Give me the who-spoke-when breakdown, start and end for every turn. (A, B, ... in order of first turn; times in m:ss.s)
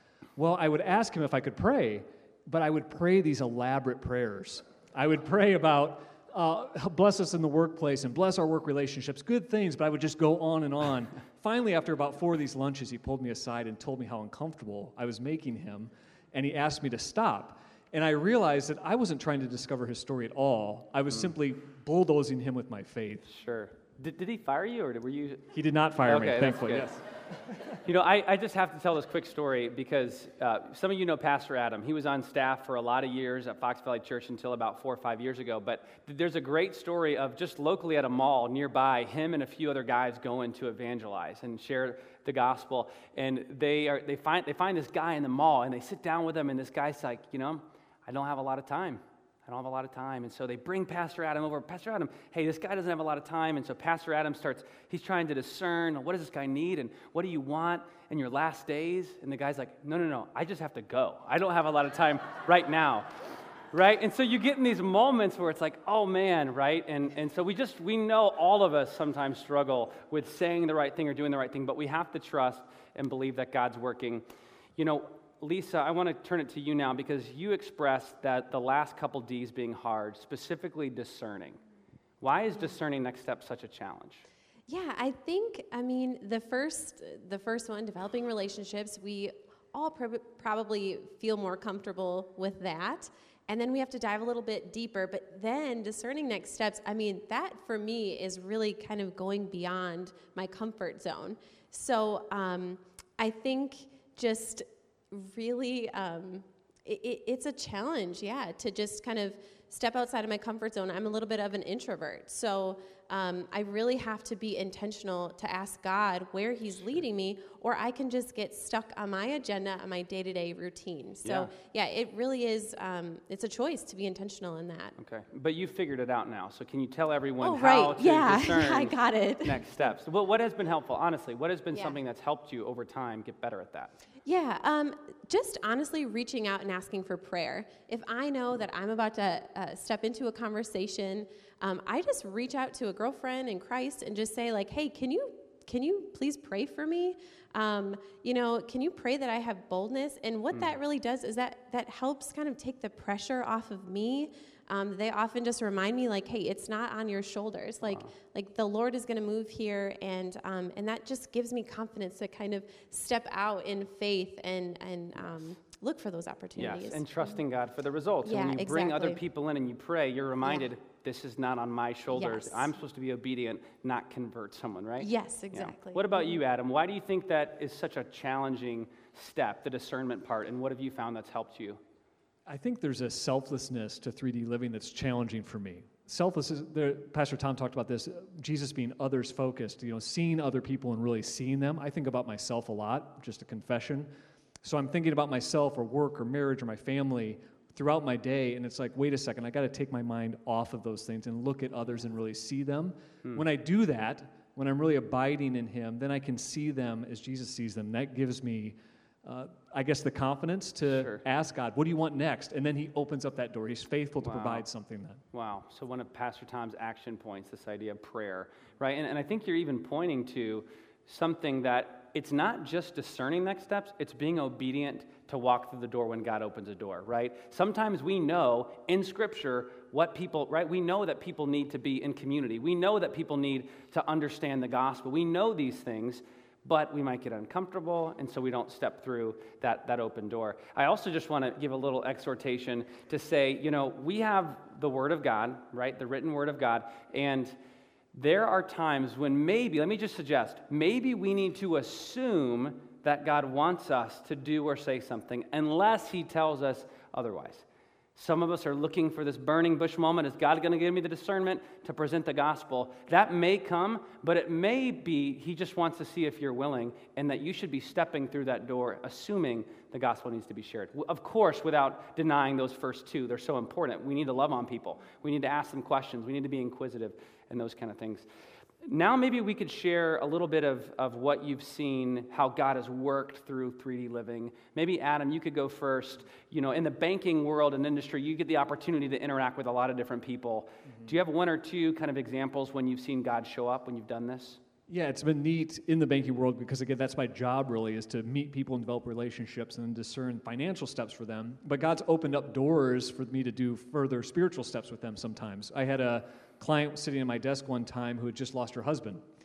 0:00.4-0:23.2 A
0:23.3-0:25.5 B
0:25.5-0:27.8 A
0:26.0-0:27.0 B
0:27.8-1:03.1 B
1:03.7-1:14.2 B
1:14.8-1:21.6 B
1:22.2-1:24.2 B
1:24.7-2:04.9 C
2:01.2-2:01.5 B
2:05.0-2:13.9 B
2:07.4-2:09.6 C
2:11.7-2:12.0 C
2:14.2-2:47.4 C
2:30.5-2:30.8 B
2:46.6-3:01.8 B
2:48.2-2:49.2 C
2:50.4-2:50.7 C
2:52.1-2:52.7 C
2:55.0-2:56.4 C
3:02.4-3:14.1 A
3:14.6-3:35.2 A
3:30.9-3:31.2 B
3:34.2-3:34.6 B
3:35.3-4:07.6 B
4:08.1-4:38.3 B
4:38.8-4:54.6 B
4:54.9-5:09.2 A